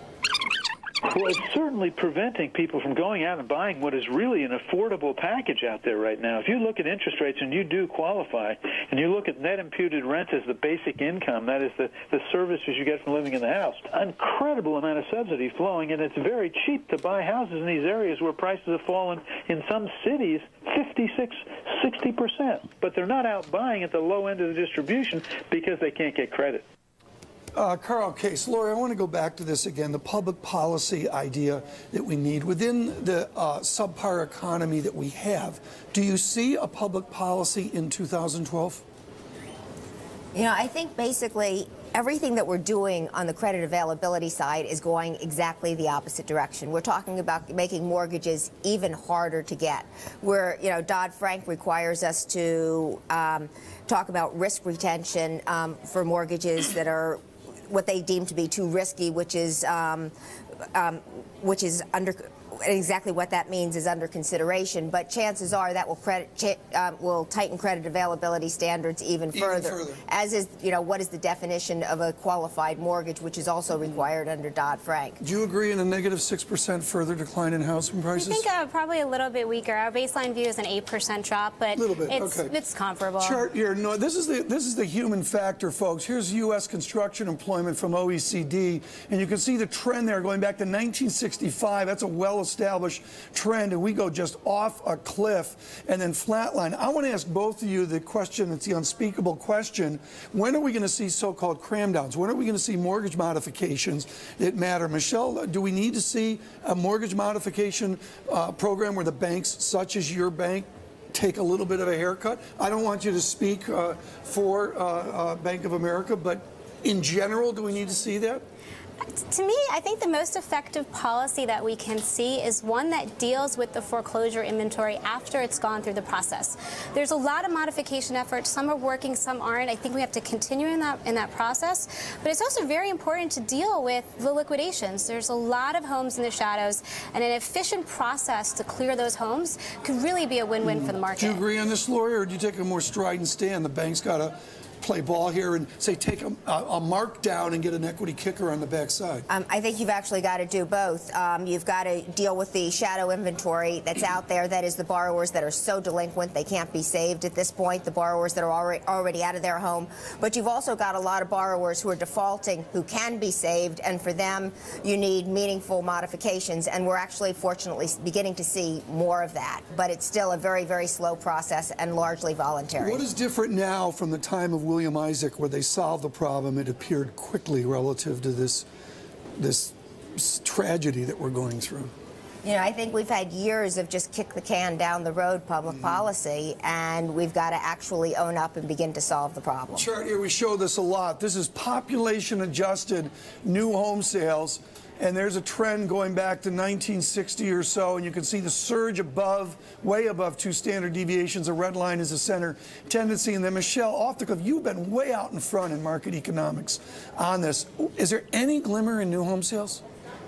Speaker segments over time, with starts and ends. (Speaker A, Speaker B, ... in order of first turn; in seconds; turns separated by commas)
Speaker A: 1.0-26.6, Speaker B: 27.6-38.8, Speaker C: 40.4-60.1, Speaker C: 60.7-75.2, Speaker B: 69.3-70.0, Speaker B: 75.2-78.5, Speaker D: 78.2-83.4, Speaker B: 81.7-82.5, Speaker B: 83.2-118.4, Speaker D: 119.1-141.4, Speaker B: 140.6-149.3, Speaker C: 149.3-173.0, Speaker B: 172.8-178.7, Speaker B: 179.4-181.9, Speaker C: 182.4-189.9, Speaker B: 189.8-209.8